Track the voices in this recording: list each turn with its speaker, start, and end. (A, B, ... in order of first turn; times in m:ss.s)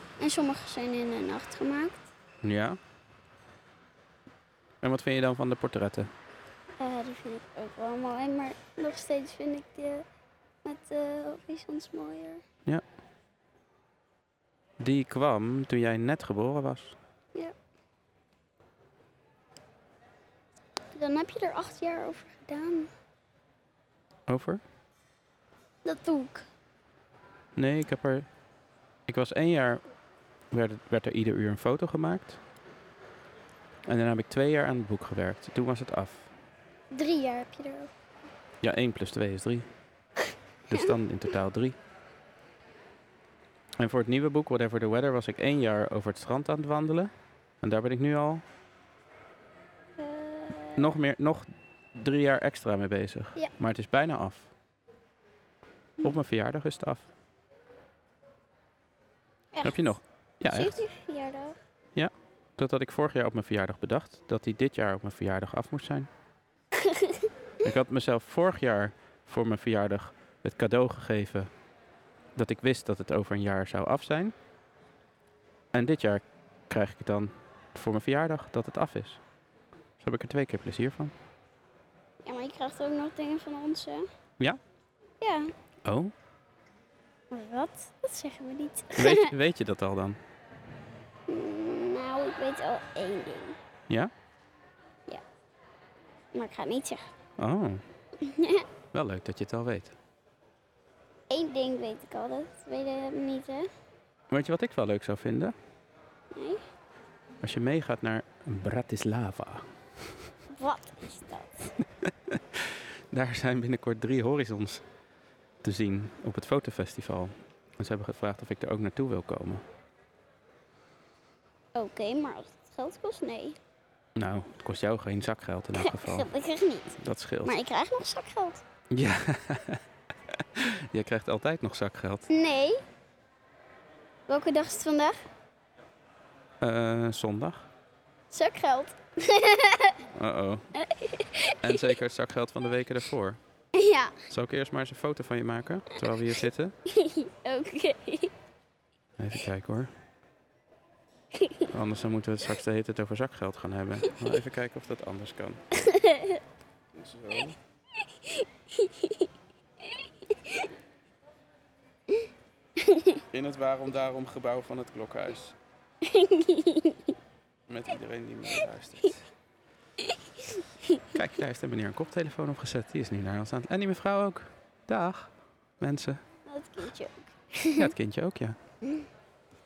0:00.2-0:02.1 A
0:02.4-0:02.8 B
0:04.8-0:06.1 B
0:06.8-0:10.0 A
0:10.6-0:12.4 A
0:14.8-0:17.0 B
0:20.9-0:22.9 A
0:24.3-0:24.6 B
0:25.8-0:26.5 A
0:27.6-0:28.3 B
0:29.1-0:29.8 B
0:30.5-0:32.4 B
0:33.9-0:36.3 B
0:36.9-0:37.9 A
0:38.6-0:39.7 B
0:40.7-0:41.8 B
0:43.8-0:48.4 B
0:50.0-0:50.9 A
0:50.8-0:54.5 B
0:56.0-0:57.1 B
0:59.5-1:00.0 A
0:59.6-1:00.8 B
1:00.5-1:01.6 A
1:02.0-1:06.1 B
1:06.8-1:07.3 A
1:07.6-1:11.5 B
1:12.4-1:14.4 B
1:15.7-1:19.2 B
1:20.0-1:21.1 B
1:22.2-1:24.1 A
1:25.2-1:25.5 A
1:25.8-1:26.1 B
1:27.3-1:29.3 A
1:29.0-1:30.2 B
1:31.3-1:33.6 A
1:36.3-1:37.0 A
1:37.4-1:37.8 B
1:38.2-1:38.7 A
1:38.9-1:40.0 B
1:41.3-1:43.7 A
1:44.3-1:45.6 B
1:46.3-1:46.6 A
1:47.4-1:49.7 B
1:50.5-1:51.7 A
1:52.0-1:54.8 B
1:55.6-1:59.6 B
2:01.8-2:03.6 A
2:04.2-2:06.3 B
2:05.8-2:08.6 A
2:07.0-2:07.6 B
2:08.9-2:12.3 B
2:12.3-2:12.8 A
2:14.3-2:15.2 A
2:16.6-2:17.7 B
2:18.3-2:20.0 A
2:20.1-2:20.7 B
2:20.8-2:21.9 A
2:21.6-2:23.4 B
2:23.8-2:24.1 A
2:24.3-2:26.8 B
2:26.9-2:28.3 A
2:29.2-2:29.9 B
2:31.4-2:31.7 A
2:31.7-2:35.6 B
2:35.7-2:36.4 A
2:36.9-2:37.6 B
2:38.2-2:39.3 A
2:40.0-2:40.7 A
2:42.8-2:43.2 A
2:43.3-2:45.6 B
2:46.0-2:47.2 A
2:47.7-2:49.2 B
2:50.0-2:51.0 A
2:51.1-2:56.2 B
2:56.5-2:57.9 A
2:57.8-2:58.6 B